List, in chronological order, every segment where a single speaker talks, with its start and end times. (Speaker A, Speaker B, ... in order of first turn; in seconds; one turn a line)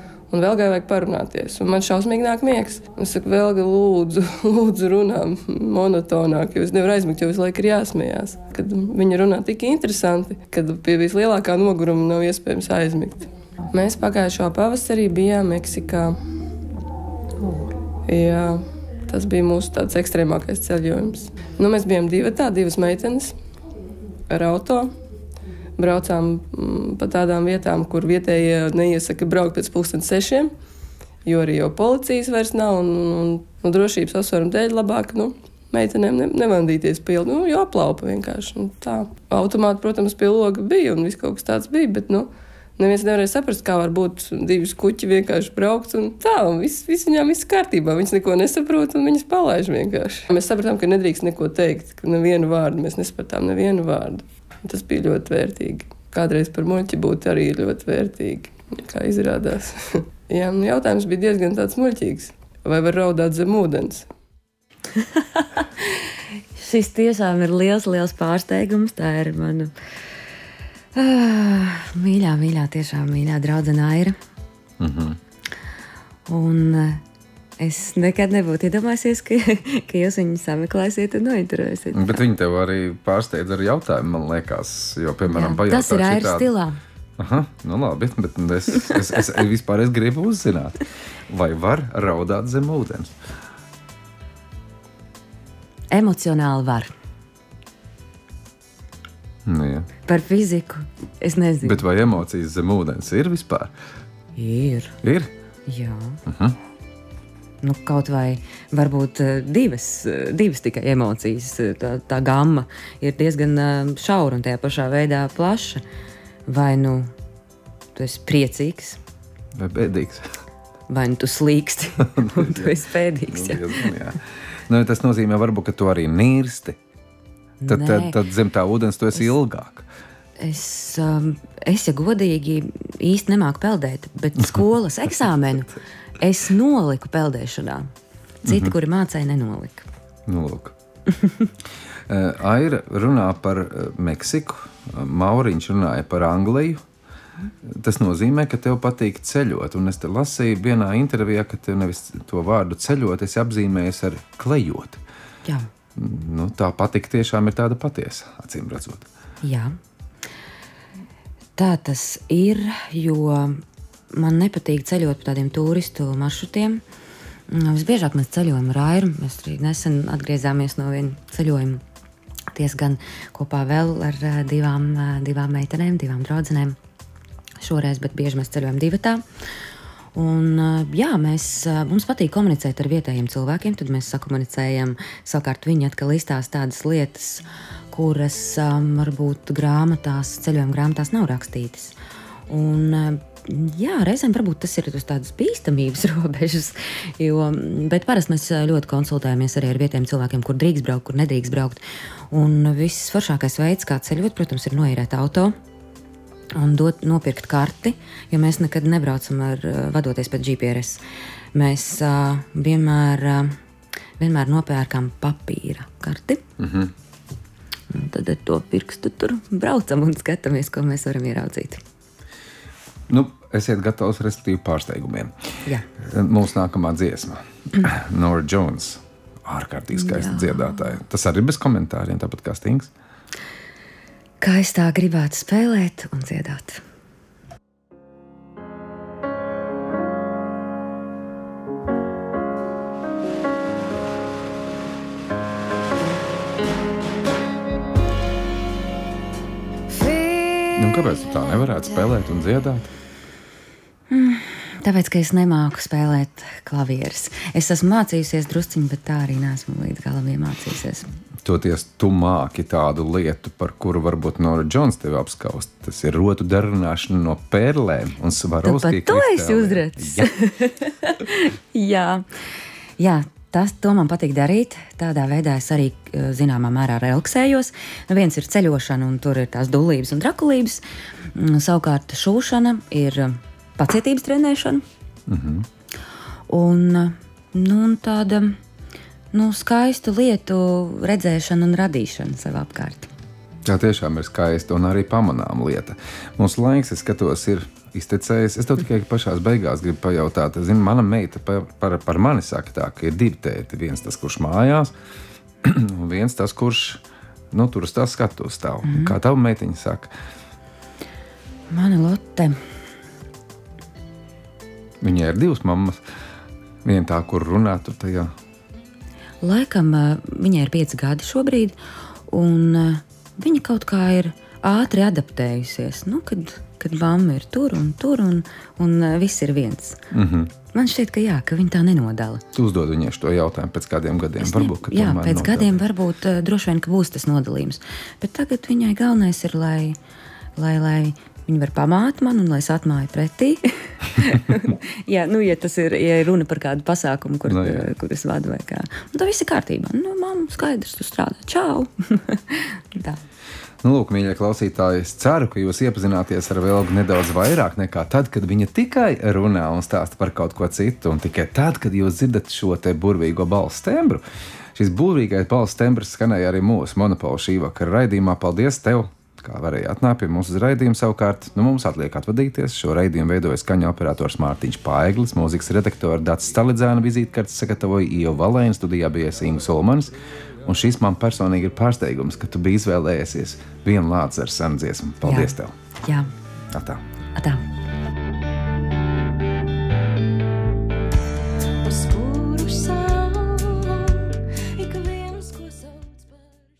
Speaker A: 0.3-16.2
Speaker A: 18.1-23.4
Speaker A: 24.3-24.9
Speaker A: 25.8-30.5
Speaker A: 31.2-64.1
Speaker B: 65.0-66.0
Speaker B: 66.6-69.7
Speaker B: 71.0-74.2
Speaker C: 74.8-75.2
Speaker B: 76.3-77.0
Speaker B: 77.6-82.2
Speaker C: 81.9-86.5
Speaker B: 85.3-86.8
Speaker C: 87.2-93.1
Speaker B: 95.9-96.9
Speaker C: 99.5-99.9
Speaker B: 100.1-101.8
Speaker C: 101.6-103.7
Speaker B: 104.4-105.0
Speaker C: 105.0-105.3
Speaker B: 105.7-106.2
Speaker C: 106.3-106.6
Speaker B: 107.6-115.8
Speaker B: 116.5-117.1
Speaker B: 118.0-119.0
Speaker C: 119.6-120.3
Speaker B: 120.9-123.8
Speaker C: 122.2-122.8
Speaker C: 123.3-126.8
Speaker B: 127.6-128.2
Speaker C: 127.7-129.9
Speaker B: 130.4-137.9
Speaker B: 138.4-139.9
Speaker C: 138.5-138.8
Speaker C: 140.3-140.8
Speaker C: 142.1-146.8
Speaker C: 147.6-155.0
Speaker C: 156.0-159.1
Speaker B: 159.4-159.8
Speaker B: 161.6-163.6
Speaker B: 164.1-166.8
Speaker B: 167.5-171.8
Speaker B: 172.5-176.8
Speaker B: 177.6-179.2
Speaker B: 180.2-191.9
Speaker B: 192.5-205.6
Speaker B: 206.6-211.0
Speaker B: 211.6-213.5
Speaker B: 214.2-216.4
Speaker C: 216.6-216.9
Speaker B: 217.9-221.8
Speaker C: 223.1-225.3
Speaker C: 226.0-232.9
Speaker B: 229.9-230.8
Speaker B: 234.4-236.8
Speaker B: 250.1-250.5
Speaker C: 250.8-252.9
Speaker B: 254.1-261.1
Speaker C: 261.4-270.3
Speaker B: 268.6-272.2
Speaker B: 273.0-280.8
Speaker B: 281.3-284.8
Speaker C: 285.3-285.7
Speaker B: 286.5-288.6
Speaker B: 289.3-293.1
Speaker C: 293.6-304.9
Speaker C: 305.6-310.1
Speaker B: 308.9-309.2
Speaker B: 311.7-312.6
Speaker C: 315.0-316.0
Speaker C: 316.8-318.3
Speaker B: 319.4-321.8
Speaker B: 322.3-330.0
Speaker C: 330.1-330.5
Speaker B: 330.7-332.4
Speaker C: 332.5-335.8
Speaker B: 334.4-340.0
Speaker B: 340.6-353.2
Speaker C: 347.5-347.9
Speaker C: 353.8-364.2
Speaker C: 364.8-380.1
Speaker C: 380.6-385.8
Speaker B: 385.2-386.3
Speaker C: 386.7-387.0
Speaker B: 387.4-387.6
Speaker B: 391.9-394.2
Speaker B: 394.8-395.9